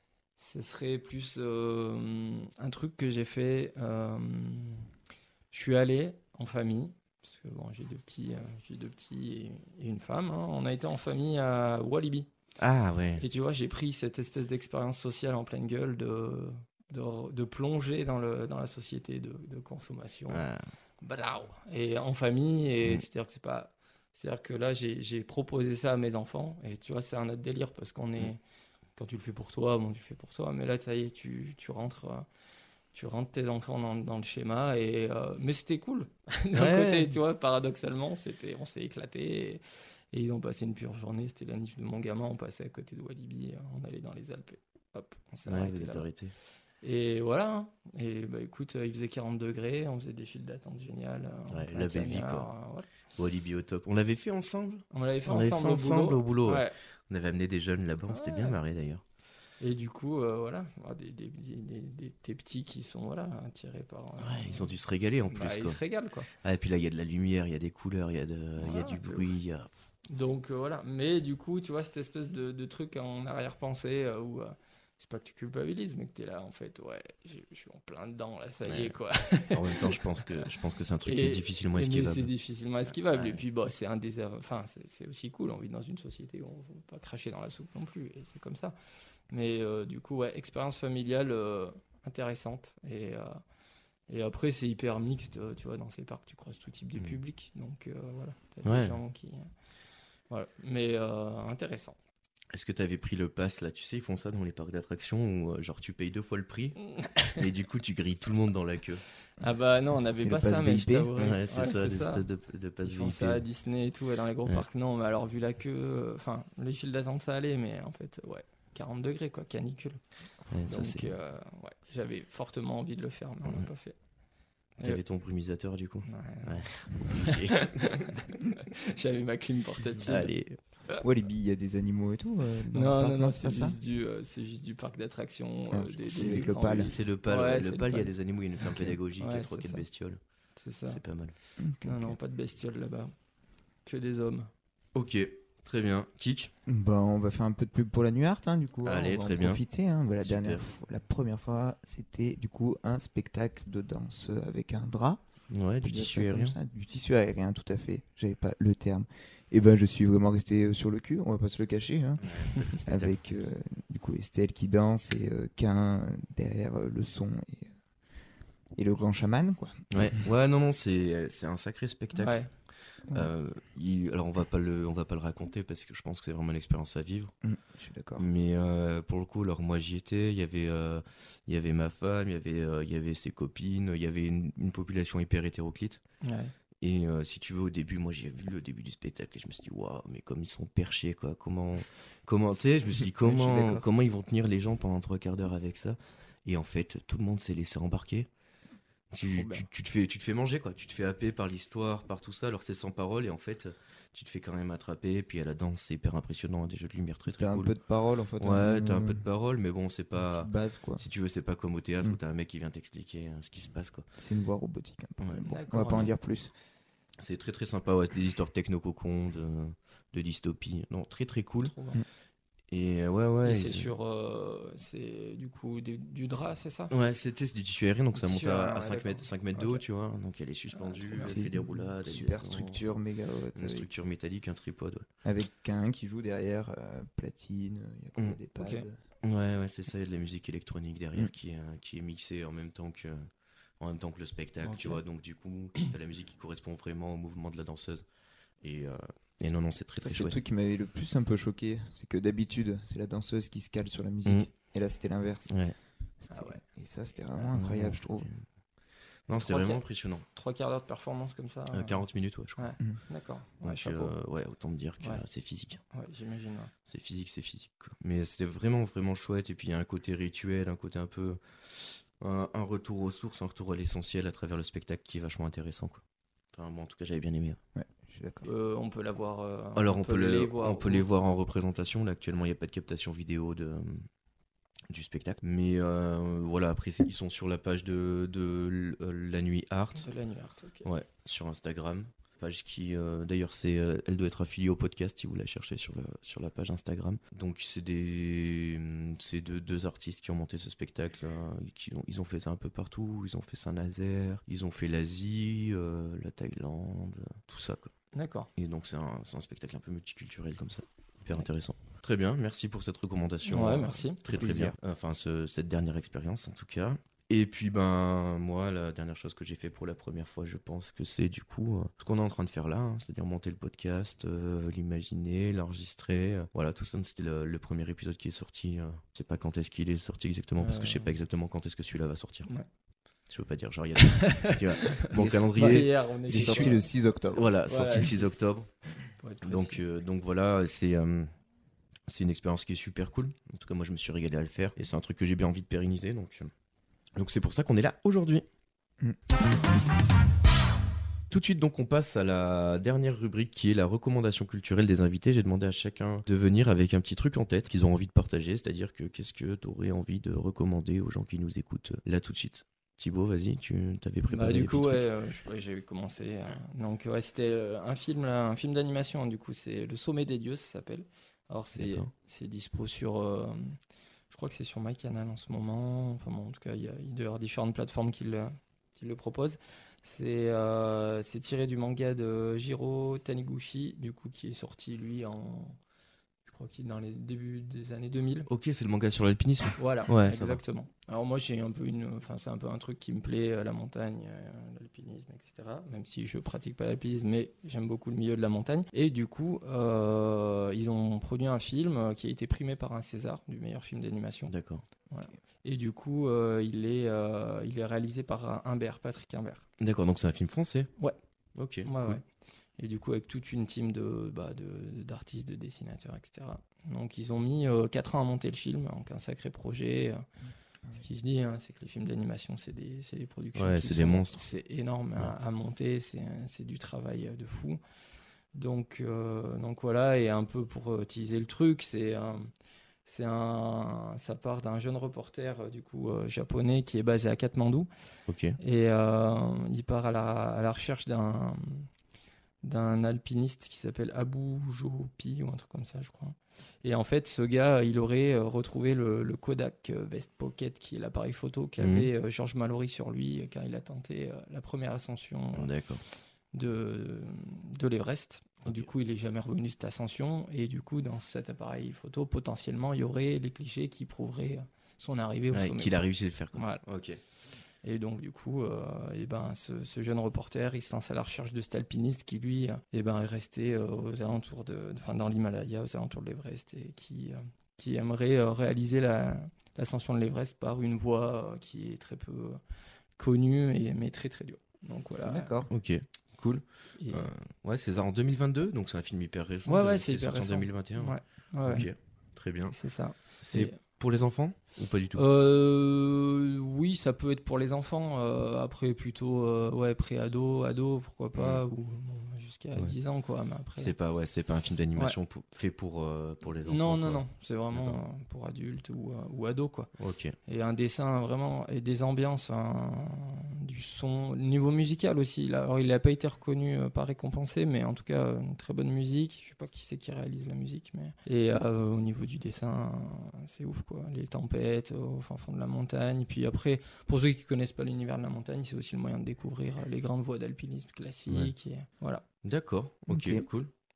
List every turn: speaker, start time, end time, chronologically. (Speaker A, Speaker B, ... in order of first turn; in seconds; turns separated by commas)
Speaker A: 0.4-4.9, Speaker A: 5.5-12.3, Speaker B: 12.6-13.2, Speaker A: 13.2-20.4, Speaker B: 20.3-20.6, Speaker A: 21.0-28.4, Speaker A: 29.0-32.3, Speaker A: 32.9-46.1, Speaker B: 36.5-37.1, Speaker B: 45.5-46.3, Speaker A: 46.8-52.9, Speaker B: 51.5-52.5, Speaker B: 53.2-59.0, Speaker A: 54.9-56.8, Speaker A: 58.1-58.6, Speaker A: 59.6-64.8, Speaker B: 64.2-65.8, Speaker A: 65.3-66.3, Speaker B: 66.4-69.7, Speaker A: 68.6-69.3, Speaker A: 70.1-80.5, Speaker B: 78.7-79.0, Speaker B: 79.5-82.3, Speaker A: 81.0-88.8, Speaker B: 83.1-83.4, Speaker A: 89.3-93.4, Speaker A: 94.1-99.5, Speaker B: 98.7-99.0, Speaker A: 100.3-102.0, Speaker B: 102.5-109.0, Speaker A: 106.9-107.4, Speaker A: 109.4-112.2, Speaker C: 110.0-111.1, Speaker B: 111.2-113.4, Speaker A: 112.8-120.0, Speaker B: 120.5-121.1, Speaker A: 120.6-124.0, Speaker B: 124.8-128.1, Speaker A: 126.1-130.3, Speaker B: 130.1-130.6, Speaker C: 131.0-133.8, Speaker A: 132.7-138.1, Speaker C: 135.7-136.9, Speaker B: 136.2-140.2, Speaker A: 139.2-139.8, Speaker A: 140.6-141.0, Speaker B: 140.9-141.3, Speaker C: 141.6-142.2, Speaker A: 141.8-143.1, Speaker A: 143.8-144.5, Speaker B: 144.9-146.5, Speaker C: 146.7-155.2, Speaker B: 148.8-149.6, Speaker B: 150.2-150.6, Speaker B: 155.5-156.6, Speaker C: 155.8-167.8, Speaker B: 162.2-163.1, Speaker C: 168.8-170.1, Speaker B: 169.9-172.4, Speaker A: 172.1-172.5, Speaker B: 173.1-177.3, Speaker C: 177.4-178.3, Speaker B: 178.2-186.0, Speaker A: 186.2-186.5, Speaker B: 186.8-198.3, Speaker C: 193.2-193.8, Speaker B: 199.1-207.7, Speaker A: 199.3-199.7, Speaker C: 207.3-209.2, Speaker B: 208.4-214.1, Speaker C: 210.2-211.0, Speaker C: 214.2-216.5, Speaker B: 215.2-215.5, Speaker A: 215.4-216.1, Speaker B: 217.2-221.7, Speaker A: 221.6-222.0, Speaker B: 222.7-223.9, Speaker A: 223.4-226.9, Speaker B: 226.9-232.9, Speaker A: 228.2-229.8, Speaker A: 230.7-231.3, Speaker C: 231.2-233.9, Speaker B: 233.6-235.1, Speaker C: 235.2-239.0, Speaker A: 238.6-238.9, Speaker B: 239.2-243.2, Speaker B: 243.8-248.1, Speaker A: 244.7-245.0, Speaker B: 248.6-250.4, Speaker C: 250.0-255.6, Speaker B: 255.5-255.8, Speaker C: 256.2-258.3, Speaker A: 256.3-256.6, Speaker B: 257.5-258.4, Speaker B: 259.3-260.3, Speaker A: 259.3-259.8, Speaker A: 260.3-262.1, Speaker B: 261.7-262.7, Speaker A: 262.6-264.1, Speaker B: 263.6-265.8, Speaker A: 265.9-266.7, Speaker B: 266.9-276.0, Speaker B: 276.5-277.6, Speaker C: 277.8-278.5, Speaker A: 278.4-281.1, Speaker B: 279.8-284.1, Speaker B: 284.9-290.1, Speaker A: 290.0-290.9, Speaker B: 290.9-307.9, Speaker A: 308.1-308.5, Speaker B: 308.6-332.5, Speaker A: 313.5-314.2, Speaker C: 314.3-314.8, Speaker A: 330.6-331.1, Speaker B: 333.3-338.7, Speaker A: 334.1-336.8, Speaker C: 335.2-338.1, Speaker A: 337.7-338.4, Speaker A: 339.1-339.8, Speaker B: 339.4-341.3, Speaker B: 342.1-346.5, Speaker B: 347.2-348.4, Speaker B: 351.3-365.0, Speaker A: 364.3-373.8, Speaker B: 371.8-372.1, Speaker A: 374.3-385.8, Speaker A: 386.5-388.5, Speaker B: 388.5-390.6, Speaker A: 389.8-404.5, Speaker B: 404.5-404.9, Speaker A: 405.1-409.6, Speaker B: 409.8-410.9, Speaker B: 411.6-412.2, Speaker A: 411.9-412.2, Speaker A: 412.8-420.2, Speaker A: 420.9-427.8, Speaker B: 423.6-424.4, Speaker A: 428.5-432.5, Speaker A: 433.1-437.9, Speaker B: 438.3-438.6, Speaker A: 438.6-441.9, Speaker A: 442.6-455.7, Speaker B: 451.8-452.1, Speaker B: 455.6-456.0, Speaker A: 456.5-466.0, Speaker B: 465.5-467.2, Speaker A: 466.5-466.8, Speaker A: 467.8-482.6, Speaker A: 483.2-485.5, Speaker C: 485.2-485.7, Speaker B: 485.7-492.8, Speaker A: 487.0-487.3, Speaker A: 489.7-491.9, Speaker A: 492.7-493.8, Speaker B: 493.4-495.2, Speaker A: 495.1-503.9, Speaker B: 501.4-501.6, Speaker B: 503.8-508.0, Speaker A: 506.7-509.9, Speaker B: 510.0-510.4, Speaker A: 510.5-532.2, Speaker B: 532.4-533.7, Speaker C: 533.1-533.5